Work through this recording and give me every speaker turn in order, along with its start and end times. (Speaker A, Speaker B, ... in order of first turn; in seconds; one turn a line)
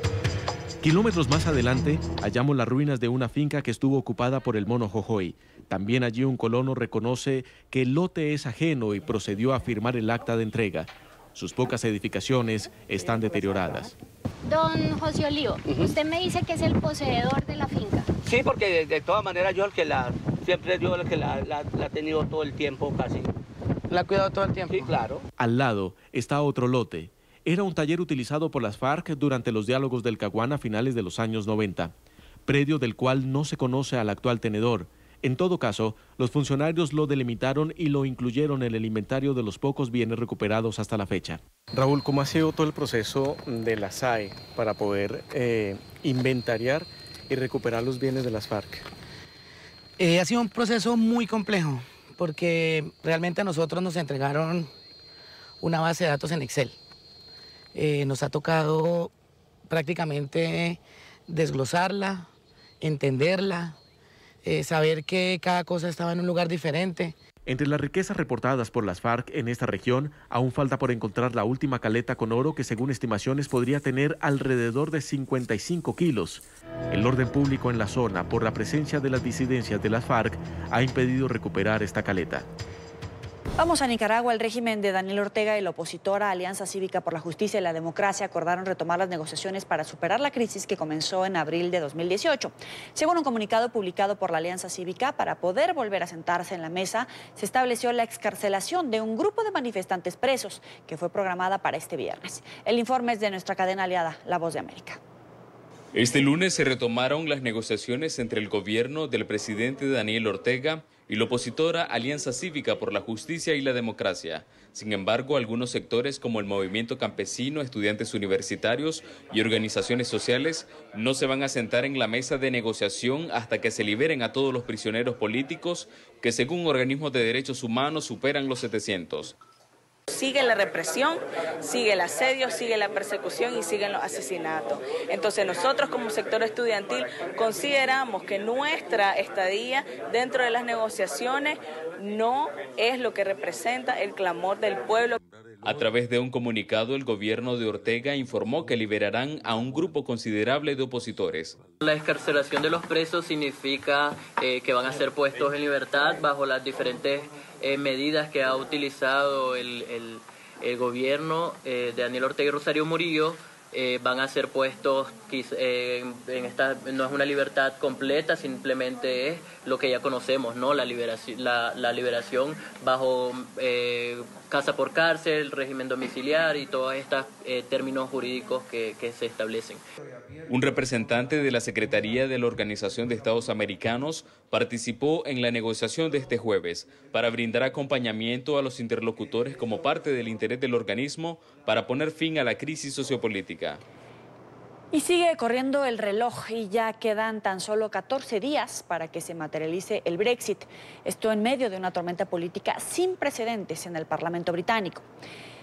Speaker A: 0.8-13.9
Speaker B: 14.5-18.1
Speaker C: 15.6-15.9
Speaker C: 18.2-23.3
Speaker D: 23.9-24.9
Speaker C: 24.7-25.2
Speaker A: 25.4-31.9
Speaker A: 32.5-41.4
Speaker E: 41.8-48.8
Speaker D: 50.0-54.7
Speaker D: 55.6-56.8
Speaker D: 57.7-59.1
Speaker D: 59.7-62.3
Speaker D: 62.8-63.8
Speaker D: 64.4-67.2
Speaker A: 67.5-82.5
Speaker F: 83.6-105.0
Speaker G: 105.9-129.3
Speaker H: 130.1-145.2
Speaker G: 145.6-151.6
Speaker I: 151.8-179.8
Speaker G: 180.5-193.8
Speaker F: 194.9-205.1